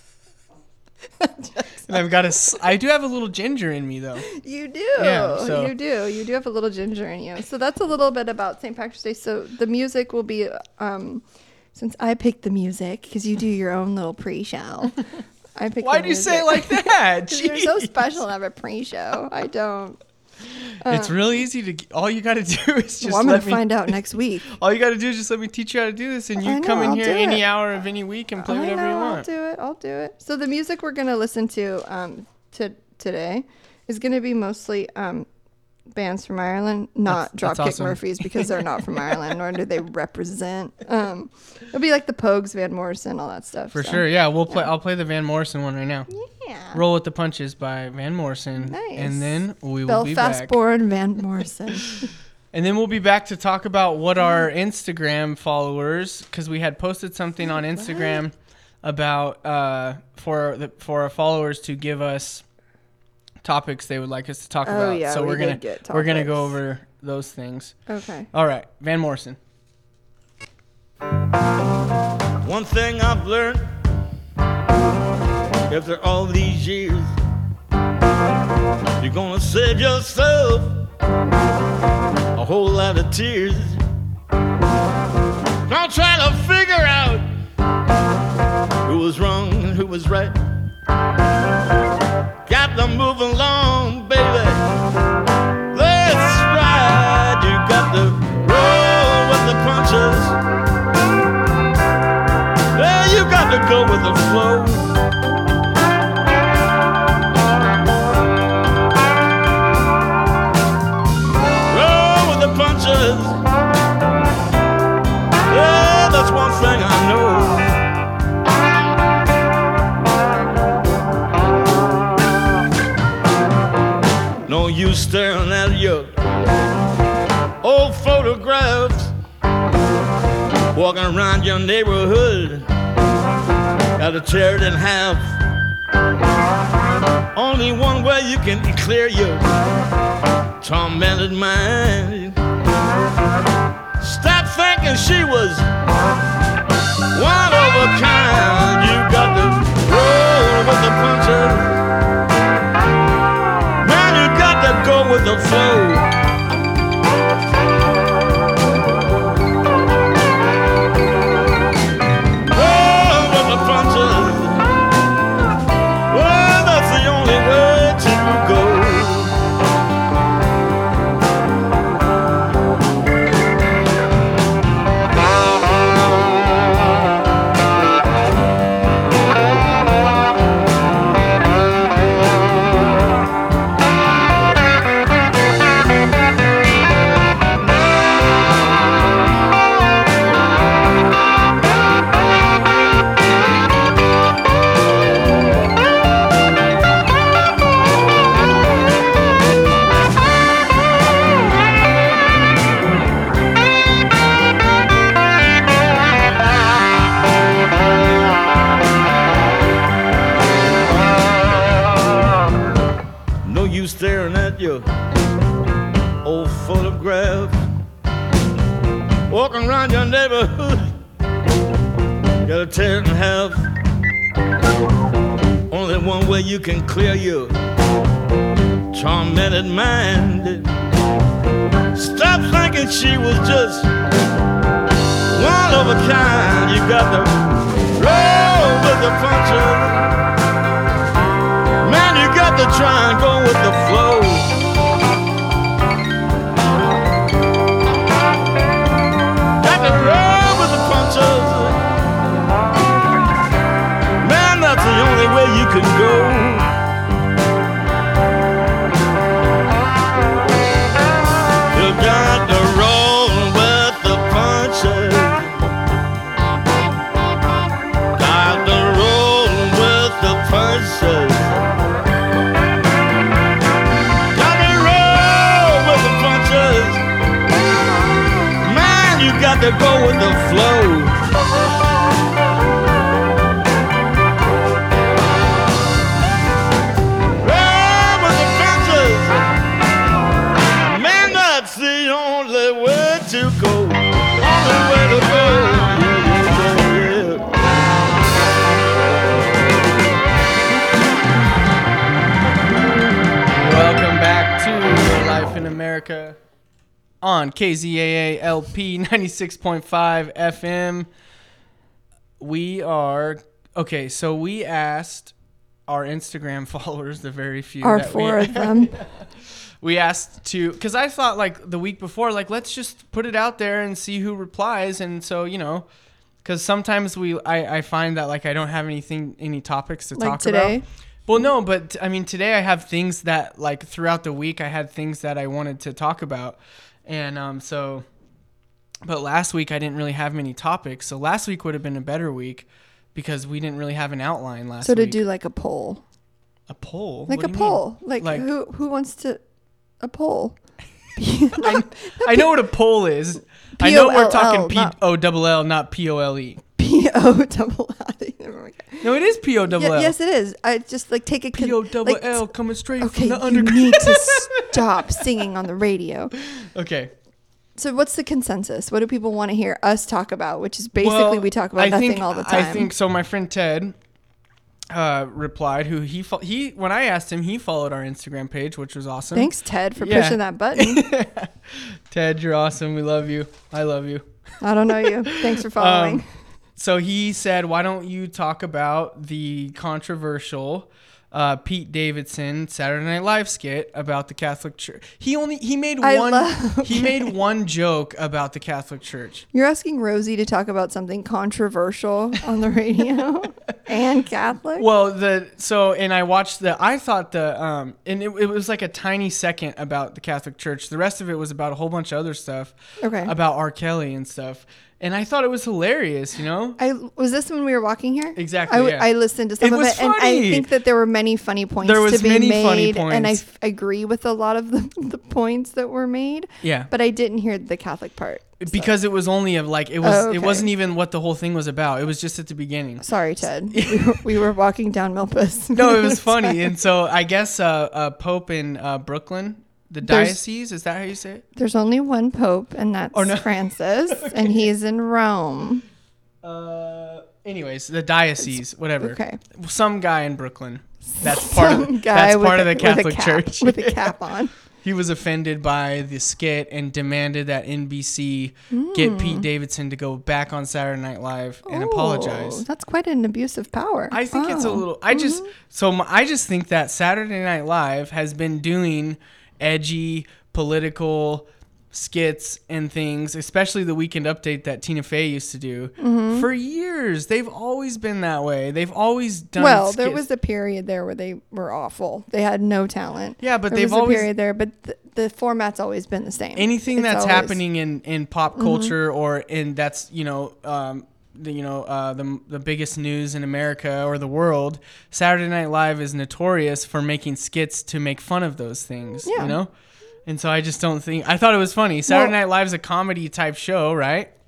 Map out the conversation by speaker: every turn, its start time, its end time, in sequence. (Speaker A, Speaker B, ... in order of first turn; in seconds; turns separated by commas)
Speaker A: 1.2-2.1, Speaker B: 1.9-4.3, Speaker A: 4.2-15.0, Speaker B: 5.0-5.8, Speaker A: 15.6-20.0, Speaker B: 15.8-18.2, Speaker A: 20.8-21.2, Speaker B: 20.9-23.9, Speaker A: 23.0-24.5, Speaker B: 24.5-29.3, Speaker A: 26.4-27.5, Speaker A: 28.4-35.3, Speaker A: 35.9-44.7, Speaker B: 37.1-38.6, Speaker B: 43.7-46.1, Speaker A: 46.1-46.8, Speaker B: 46.7-50.5, Speaker A: 48.6-52.1, Speaker B: 52.5-62.4, Speaker A: 57.5-58.2, Speaker B: 63.4-67.8, Speaker A: 64.7-66.6, Speaker A: 67.9-68.3, Speaker B: 68.3-69.4, Speaker C: 72.4-73.7, Speaker C: 75.7-77.1, Speaker C: 79.0-80.7, Speaker C: 82.3-83.8, Speaker C: 85.7-87.3, Speaker C: 88.8-90.4, Speaker C: 92.5-94.7, Speaker C: 95.7-100.4, Speaker C: 102.7-105.0, Speaker C: 111.7-113.4, Speaker C: 115.5-117.8, Speaker C: 124.5-126.1, Speaker C: 127.6-129.1, Speaker C: 130.7-132.7, Speaker C: 134.0-135.3, Speaker C: 137.3-139.5, Speaker C: 140.6-142.4, Speaker C: 144.0-145.7, Speaker C: 147.1-151.8, Speaker C: 153.8-156.1, Speaker C: 162.5-164.7, Speaker C: 166.1-169.4, Speaker C: 213.4-214.9, Speaker C: 216.2-217.6, Speaker C: 219.3-220.9, Speaker C: 222.4-223.7, Speaker C: 225.7-227.6, Speaker C: 228.9-230.7, Speaker C: 231.9-233.9, Speaker C: 235.3-237.4, Speaker C: 237.9-240.1, Speaker C: 241.8-244.5, Speaker C: 249.6-251.8, Speaker C: 254.2-256.7, Speaker C: 261.7-265.6, Speaker C: 268.2-271.6, Speaker C: 274.3-277.0, Speaker C: 278.6-281.2, Speaker C: 287.4-289.5, Speaker C: 290.9-297.5, Speaker B: 303.6-306.4, Speaker B: 307.2-311.1, Speaker B: 312.4-315.3, Speaker B: 315.9-325.9, Speaker A: 317.8-319.0, Speaker B: 326.4-338.1, Speaker A: 330.2-330.8, Speaker B: 339.0-345.2, Speaker A: 344.8-346.0, Speaker B: 346.7-348.5, Speaker A: 347.3-349.4, Speaker A: 350.0-350.6, Speaker A: 351.2-352.6, Speaker B: 351.6-356.6, Speaker A: 353.8-355.0, Speaker A: 356.8-359.1, Speaker B: 359.0-360.1, Speaker A: 359.7-366.3, Speaker B: 361.5-365.2, Speaker B: 366.5-367.1, Speaker A: 367.8-372.9, Speaker B: 371.0-373.9, Speaker B: 374.9-384.3, Speaker A: 379.3-381.1, Speaker A: 384.6-386.2, Speaker B: 384.9-386.2, Speaker B: 386.8-399.5, Speaker A: 396.0-397.4, Speaker A: 399.5-404.9, Speaker B: 404.8-416.8, Speaker A: 413.0-413.3, Speaker A: 416.8-428.9, Speaker B: 418.4-420.7, Speaker B: 421.8-423.4, Speaker B: 426.6-426.9, Speaker B: 428.6-433.1, Speaker A: 430.0-430.7, Speaker A: 433.0-436.8, Speaker B: 433.7-434.2, Speaker B: 435.7-441.4, Speaker A: 440.0-440.4, Speaker A: 441.6-445.8, Speaker B: 443.1-444.7, Speaker B: 446.4-454.2, Speaker A: 448.4-449.4, Speaker A: 451.2-454.5, Speaker B: 454.8-462.7, Speaker A: 458.7-459.5, Speaker A: 461.7-465.5, Speaker B: 464.1-480.2, Speaker A: 476.0-476.5, Speaker A: 479.6-487.6, Speaker B: 483.4-484.3, Speaker B: 486.6-499.7, Speaker A: 488.6-488.9, Speaker A: 499.2-499.6, Speaker B: 500.3-504.3, Speaker A: 502.1-502.4